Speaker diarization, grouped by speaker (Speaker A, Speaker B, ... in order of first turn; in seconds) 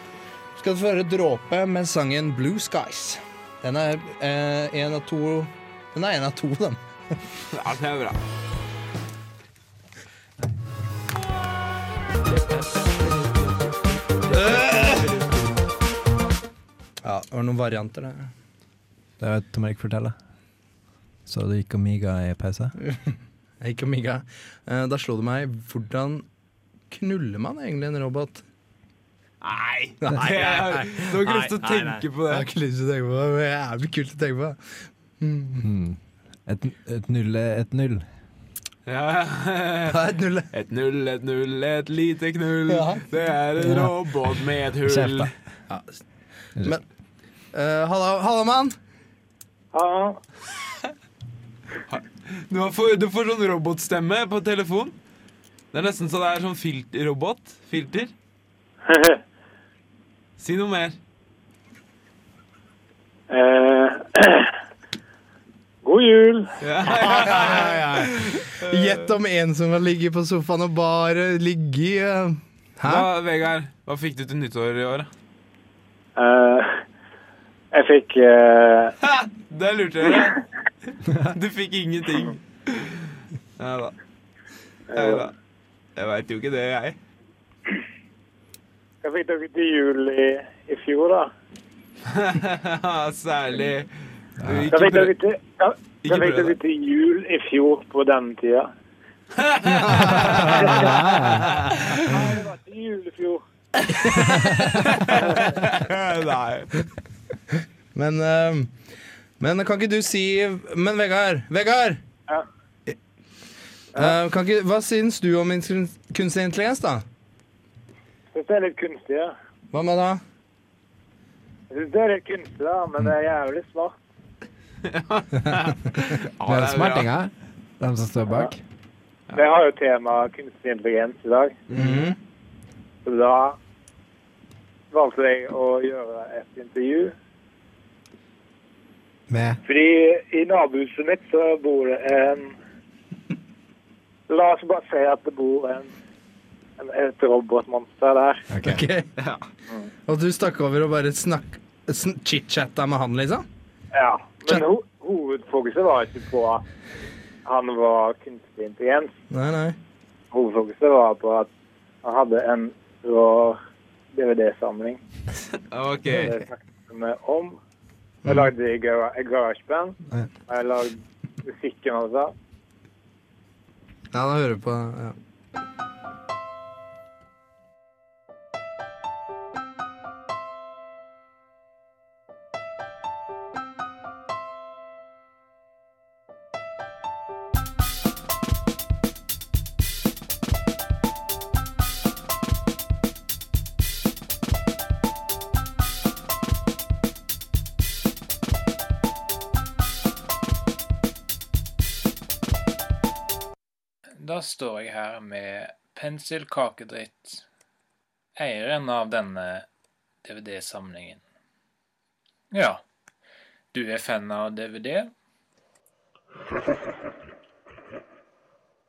Speaker A: 0.6-6.8, 14.4-15.1, 17.0-18.3, 22.8-26.3, 26.9-28.4, 30.0-35.7, 39.9-40.5, 42.7-43.0, 45.7-46.0, 47.5-48.8, 66.9-73.1, 99.7-100.7, 108.0-108.7, 109.4-112.0, 114.0-117.0, 119.7-120.2, 131.8-132.2, 148.6-149.1, 150.1-153.5, 159.3-159.8, 174.1-175.2
Speaker B: 7.5-8.2, 12.3-13.6, 14.3-15.3, 29.4-32.5, 38.9-40.0, 40.5-45.3, 51.9-55.0, 55.7-58.1, 60.4-61.0, 66.6-69.1, 72.8-75.1, 79.0-80.4, 81.0-84.0, 84.9-85.3, 86.0-87.0, 92.1-93.9, 94.4-95.1, 96.0-96.5, 99.3-100.9, 101.4-102.2, 103.9-106.9, 124.8-127.1, 165.5-166.4
Speaker C: 19.2-20.2, 21.3-22.8, 35.6-38.1, 43.6-45.3, 94.4-94.7, 100.2-101.5, 126.4-128.6, 131.7-132.1, 139.3-139.6, 148.5-148.9
Speaker D: 49.7-50.2, 58.9-59.2, 63.3-64.5, 65.8-66.5, 76.2-76.8, 77.7-79.0, 84.9-85.3, 89.0-91.3, 94.7-98.7, 100.6-101.0, 102.0-103.4, 105.2-105.5, 118.3-119.3, 121.7-124.0, 129.3-131.6, 133.1-133.6, 134.9-137.2, 139.7-142.6, 144.3-145.9, 146.8-148.5, 153.9-156.6, 157.4-159.1, 160.3-161.5, 162.0-163.6, 164.1-165.0, 166.1-167.6, 168.2-172.3
Speaker E: 204.2-207.4, 208.4-209.7, 210.2-211.2, 212.5-212.8, 213.7-215.1